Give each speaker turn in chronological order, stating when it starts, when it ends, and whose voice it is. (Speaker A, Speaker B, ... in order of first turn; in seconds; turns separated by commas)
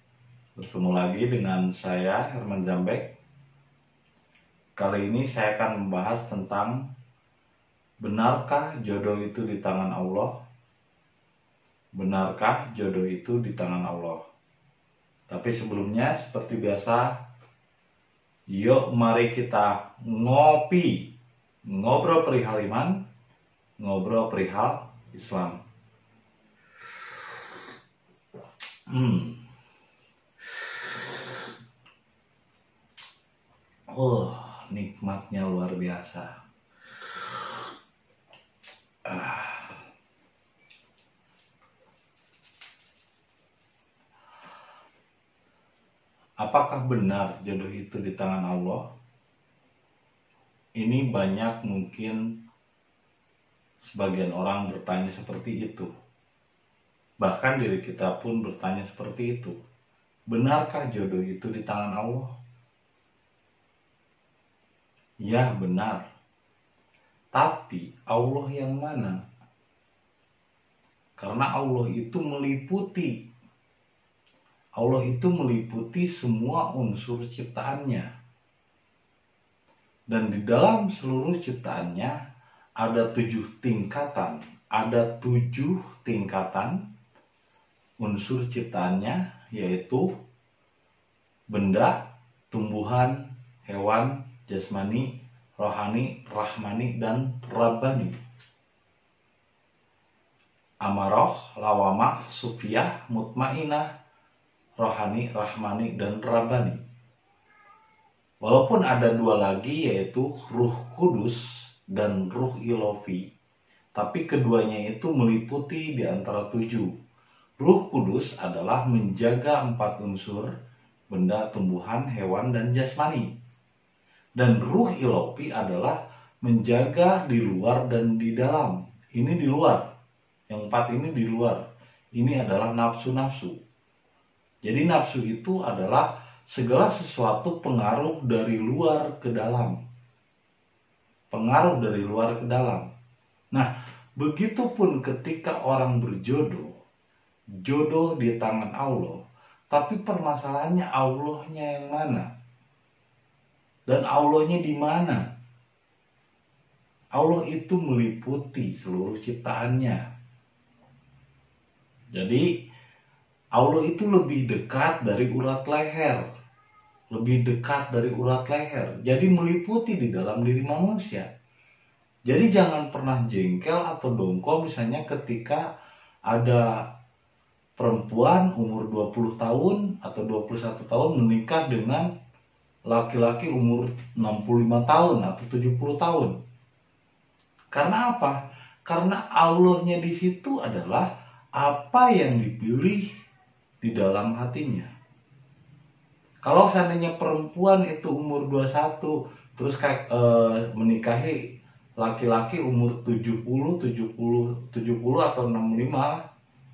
Speaker A: 0.6-3.1, Speaker A: 4.8-6.8, Speaker A: 8.0-10.3, Speaker A: 12.0-14.2, Speaker A: 15.3-17.1, Speaker A: 18.5-21.0, Speaker A: 21.7-23.0, Speaker A: 23.8-25.6, Speaker A: 28.9-29.4, Speaker A: 33.9-36.3, Speaker A: 39.0-39.8, Speaker A: 46.4-48.8, Speaker A: 50.8-52.2, Speaker A: 53.8-55.9, Speaker A: 57.2-59.5, Speaker A: 60.3-62.3, Speaker A: 65.2-66.0, Speaker A: 67.3-69.2, Speaker A: 71.2-73.2, Speaker A: 74.8-78.1, Speaker A: 80.1-82.1, Speaker A: 82.8-86.8, Speaker A: 88.0-90.1, Speaker A: 91.5-92.0, Speaker A: 92.5-95.1, Speaker A: 95.6-98.1, Speaker A: 100.8-103.9, Speaker A: 104.8-106.8, Speaker A: 108.4-113.2, Speaker A: 114.0-116.9, Speaker A: 117.6-120.5, Speaker A: 121.1-123.3, Speaker A: 124.4-129.8, Speaker A: 130.5-131.6, Speaker A: 132.2-133.6, Speaker A: 134.6-139.8, Speaker A: 141.3-142.9, Speaker A: 143.5-146.7, Speaker A: 147.6-149.2, Speaker A: 149.7-152.3, Speaker A: 153.9-155.2, Speaker A: 157.2-160.0, Speaker A: 162.1-162.5, Speaker A: 163.6-166.2, Speaker A: 167.1-171.3, Speaker A: 172.3-175.6, Speaker A: 176.3-176.8, Speaker A: 177.8-182.1, Speaker A: 182.9-186.3, Speaker A: 187.7-193.1, Speaker A: 193.8-194.9, Speaker A: 196.4-201.4, Speaker A: 202.0-206.2